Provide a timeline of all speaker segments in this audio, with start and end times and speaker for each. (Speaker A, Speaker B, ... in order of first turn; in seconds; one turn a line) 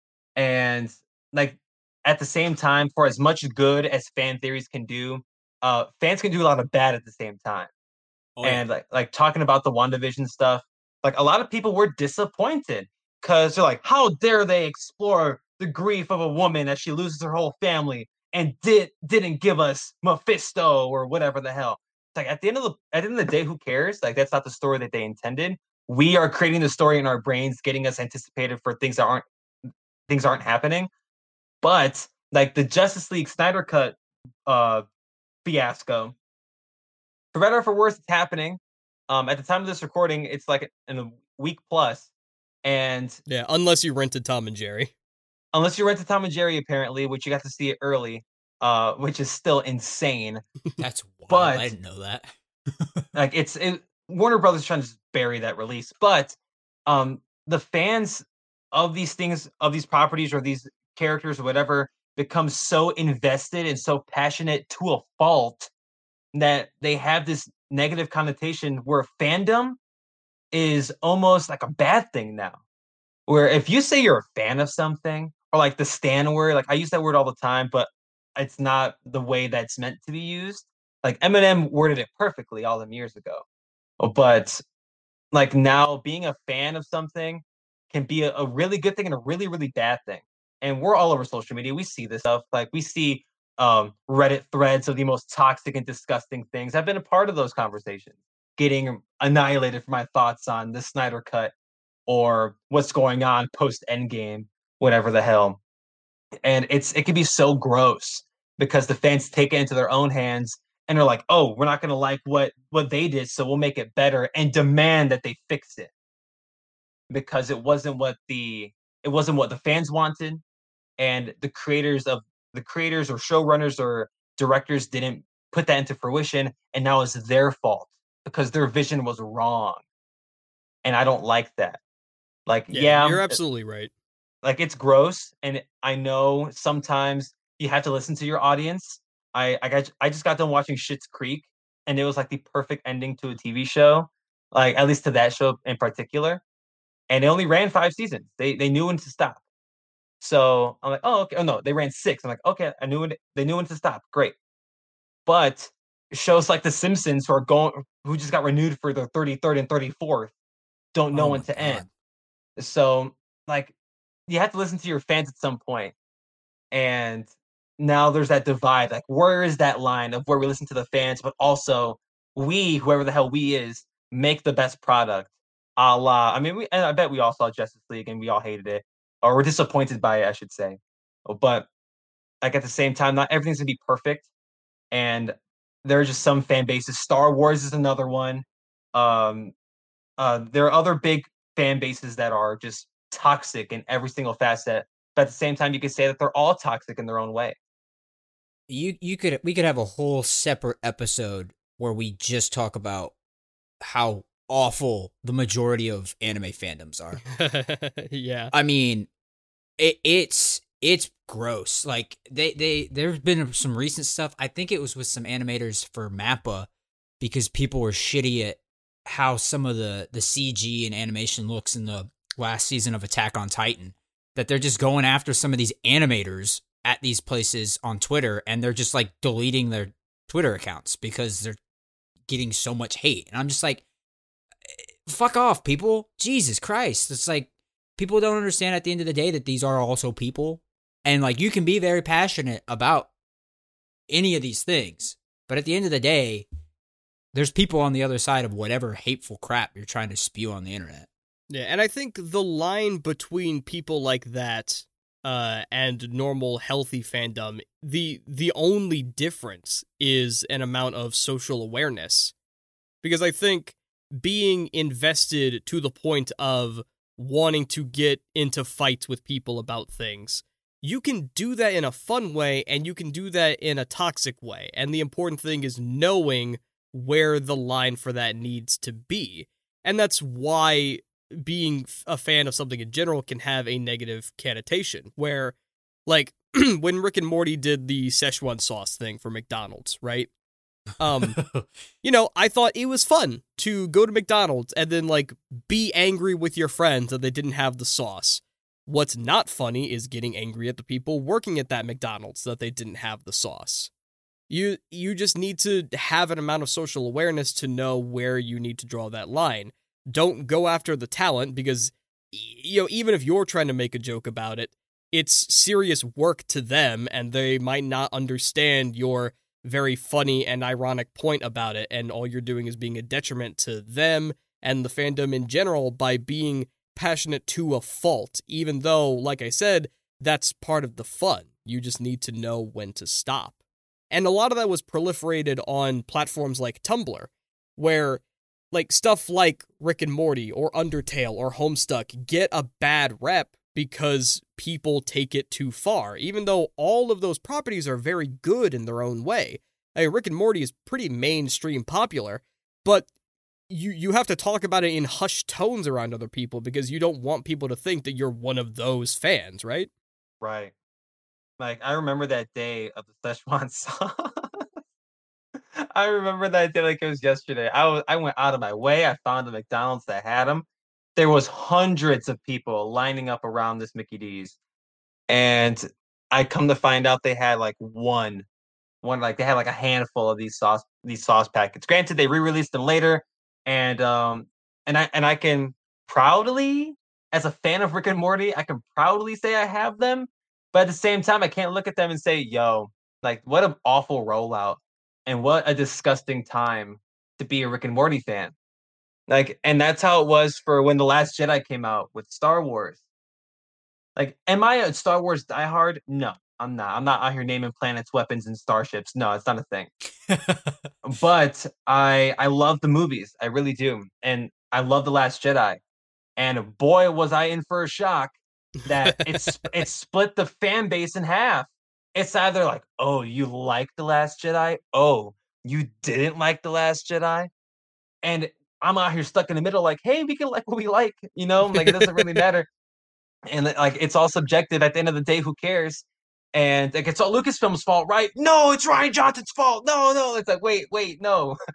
Speaker A: 0.3-7.7
Speaker B: 8.4-8.6
Speaker A: 8.4-29.2
Speaker A: 30.1-30.9
Speaker A: 31.6-34.0
Speaker A: 34.5-34.8
Speaker A: 35.4-36.1
Speaker A: 37.3-42.1
Speaker A: 42.6-43.2
Speaker C: 43.3-44.9
Speaker A: 45.5-50.4
Speaker B: 50.8-53.1
Speaker A: 51.3-51.7
Speaker A: 53.1-65.7
Speaker A: 66.3-69.8
Speaker A: 70.5-72.6
Speaker A: 73.3-83.4
Speaker A: 84.0-84.6
Speaker A: 85.3-101.5
Speaker A: 102.1-105.6
Speaker A: 106.4-115.9
Speaker A: 117.1-120.4
Speaker A: 121.0-129.8
Speaker A: 130.8-131.8
Speaker A: 132.5-133.4
Speaker C: 132.7-133.9
Speaker A: 134.4-146.4
Speaker A: 147.1-149.4
Speaker A: 150.2-154.3
Speaker A: 155.2-160.3
Speaker A: 160.9-161.8
Speaker B: 161.1-161.9
Speaker A: 162.6-163.7
Speaker A: 164.3-165.9
Speaker A: 166.7-167.3
Speaker A: 167.8-181.7
Speaker A: 182.4-184.3
Speaker A: 184.9-189.5
Speaker A: 190.2-197.6
Speaker B: 198.7-203.1
Speaker B: 203.8-207.2
Speaker C: 207.3-208.5
Speaker B: 208.5-209.1
Speaker B: 209.8-216.7
Speaker B: 217.2-231.6
Speaker B: 232.3-233.8
Speaker B: 234.7-243.1
Speaker B: 244.1-246.4
Speaker B: 247.3-251.1
Speaker C: 251.5-262.3
Speaker C: 263.0-290.3
Speaker C: 291.0-291.4
Speaker B: 291.4-291.6
Speaker C: 292.0-303.9
Speaker C: 304.5-333.5
Speaker C: 334.1-353.1
Speaker C: 353.7-359.9
Speaker A: 360.4-360.7
Speaker A: 361.6-364.7
Speaker A: 365.6-374.6
Speaker A: 375.3-378.4
Speaker A: 379.0-398.5
Speaker A: 399.3-403.0
Speaker A: 404.1-409.9
Speaker B: 410.3-410.7
Speaker A: 411.0-415.8
Speaker A: 416.4-427.5
Speaker C: 419.1-419.3
Speaker A: 428.2-432.7
Speaker C: 431.8-432.4
Speaker A: 433.5-441.6